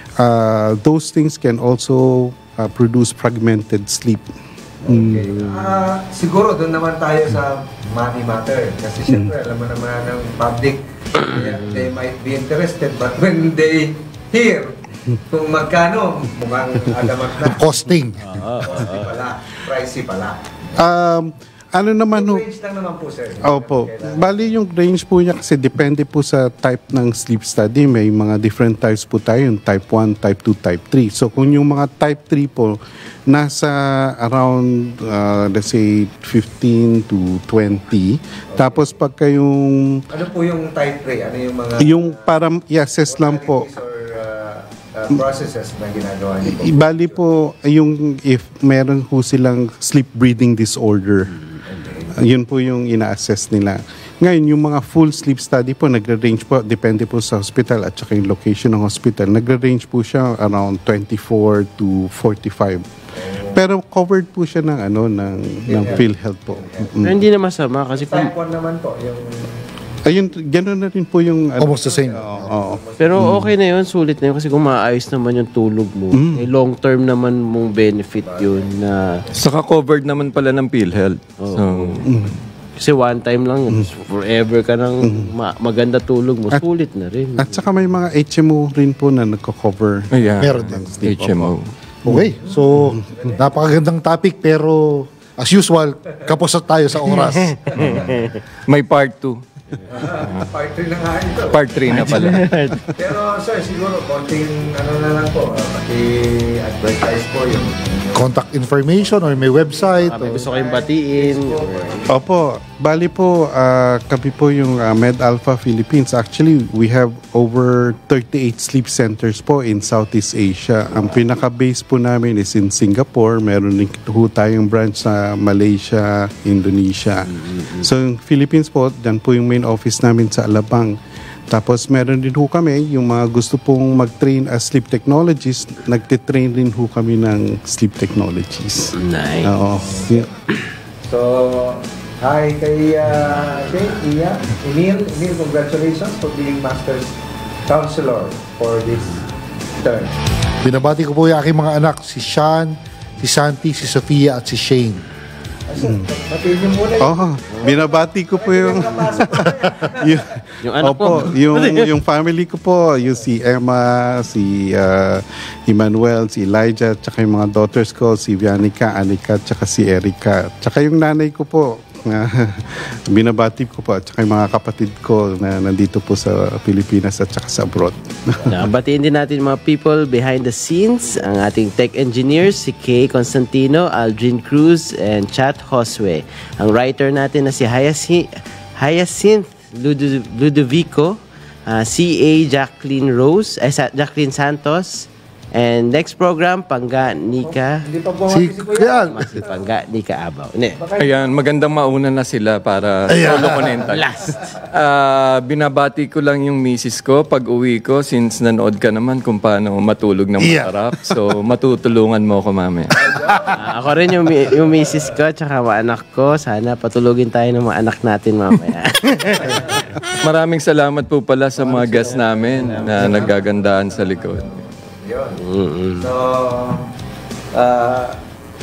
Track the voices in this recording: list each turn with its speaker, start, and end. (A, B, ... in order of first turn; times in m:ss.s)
0:00.2-0:04.3 A
0:04.8-0:14.7 B
0:04.9-0:05.3 A
0:05.3-0:05.6 C
0:09.1-0:09.3 A
0:11.4-0:11.8 C
0:15.3-0:17.7 B
0:17.5-0:18.2 D
0:18.2-0:19.1 C
0:18.6-0:20.4 B
0:20.8-0:22.4 A
0:22.1-0:24.3 B
0:23.4-0:40.0 A
0:38.5-0:38.9 B
0:40.1-0:42.3 B
0:41.8-0:43.7 A
0:43.1-0:47.2 B
0:46.4-0:51.3 A
0:51.3-0:51.6 C
0:51.8-0:52.1 B
0:52.1-1:02.8 A
1:03.2-1:03.6 B
1:03.4-1:07.2 A
1:05.7-1:06.9 B
1:07.0-1:08.3 C
1:07.9-1:09.5 B
1:10.0-1:13.5 A
1:11.6-1:12.6 D
1:11.8-1:13.3 B
1:13.0-1:19.2 C
1:16.1-1:16.4 A
1:18.2-1:19.4 B
1:19.3-1:22.2 E
1:21.4-1:22.0 C
1:22.0-1:22.3 A
1:22.8-1:27.6 C
1:25.0-1:25.3 A
1:27.4-1:31.6 A
1:30.1-1:31.7 E
1:30.4-1:30.8 D
1:32.0-1:37.7 D
1:32.8-1:33.2 A
1:37.3-1:38.4 C
1:37.7-1:38.3 B
1:38.7-1:39.4 E
1:39.9-1:42.3 B
1:41.5-1:42.4 E
1:41.9-1:42.8 C
1:42.9-1:48.3 B
1:48.1-1:50.2 D
1:49.0-1:52.2 B
1:50.0-1:52.1 C
1:52.1-2:11.0 A
2:07.3-2:07.9 C
2:11.5-2:20.3 A
2:18.9-2:19.5 C
2:19.8-2:20.2 B
2:21.1-2:27.1 B
2:27.7-2:29.2 B
2:29.8-2:30.1 B
2:30.6-2:35.0 D
2:35.7-2:40.2 B
2:35.8-2:36.1 A
2:37.0-2:58.7 A
2:40.6-2:41.9 C
2:58.4-3:17.8 C
3:17.4-3:19.6 B
3:18.3-3:19.2 D
3:19.1-3:20.8 C
3:20.8-3:21.2 B
3:21.0-3:24.0 E
3:23.1-3:23.8 D
3:23.8-3:24.5 C
3:24.7-3:32.9 E
3:30.4-3:30.7 D
3:33.0-3:33.6 B
3:33.6-3:39.8 C
3:39.4-3:39.8 B
3:40.2-3:44.5 E
3:41.6-3:45.4 B
3:41.7-3:43.4 C
3:45.3-3:46.1 C
3:46.0-3:46.9 B
3:47.5-3:48.2 B